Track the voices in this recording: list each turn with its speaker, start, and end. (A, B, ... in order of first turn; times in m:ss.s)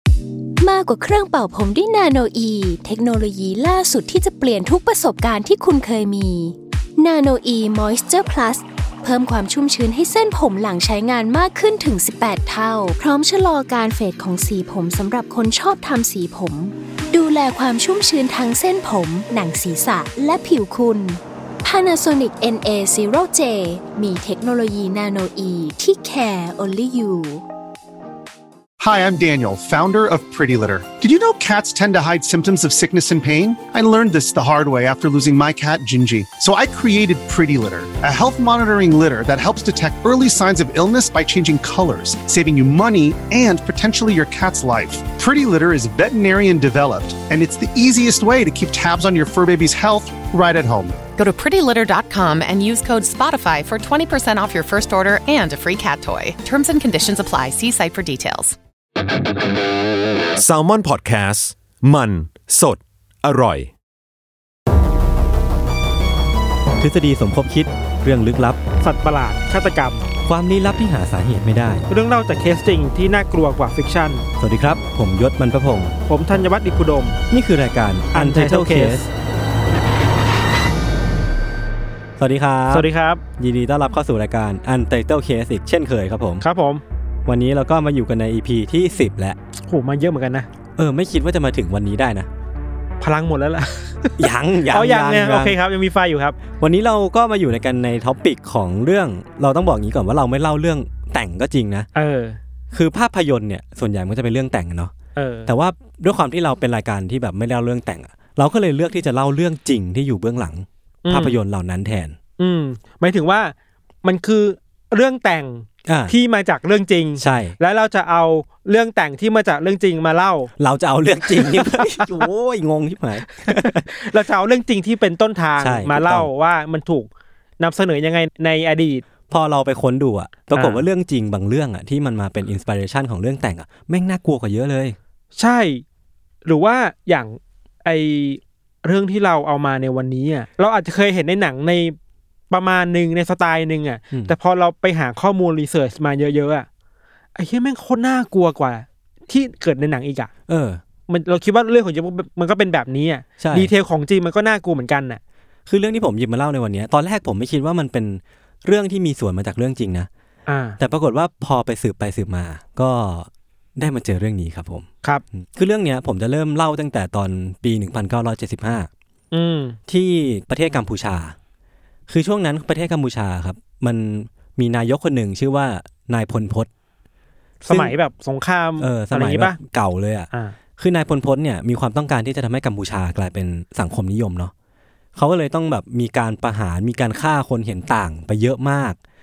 0:00.6-0:27.4 A
0:28.8-0:51.0 B
0:51.2-0:58.6 C
1:00.4-1:03.7 D
1:06.8-1:08.6 E
1:08.8-1:10.1 F
1:10.2-1:11.8 E
1:11.9-1:14.3 F
1:14.4-1:15.9 E
1:16.0-1:17.2 F
1:17.3-1:19.1 E
1:18.1-1:19.1 F
1:22.2-1:22.9 E
1:22.7-1:23.2 F
1:23.4-1:26.4 E
1:26.4-1:26.8 F
1:27.2-1:29.4 E
1:29.7-1:30.5 F
1:30.8-1:32.3 E
1:33.0-1:36.4 F
1:34.2-1:35.6 E
1:36.6-1:41.9 E
1:41.9-1:42.4 F
1:42.7-1:44.9 E
1:45.2-1:45.5 F
1:45.4-1:52.2 E
1:51.0-1:51.4 F
1:52.4-2:00.5 F
1:55.8-1:56.1 E
1:57.2-1:57.6 E
2:00.6-2:03.9 E
2:01.3-2:02.1 F
2:03.4-2:07.1 F
2:05.6-2:06.3 E
2:07.6-2:09.0 F
2:09.3-2:15.0 E
2:10.5-2:10.8 F
2:15.4-2:15.8 F
2:16.4-2:22.0 F
2:22.5-2:26.7 F
2:27.3-2:30.3 F
2:30.5-2:30.8 E
2:31.1-2:35.2 F
2:33.4-2:33.7 E
2:35.7-2:40.1 E
2:40.5-2:40.8 F
2:40.8-2:48.9 E
2:49.3-2:49.8 F
2:49.9-2:51.4 E
2:52.1-2:56.7 E
2:57.6-2:59.6 F
2:57.7-2:57.9 E
2:58.8-3:04.5 E
3:00.3-3:00.6 F
3:05.1-3:09.0 E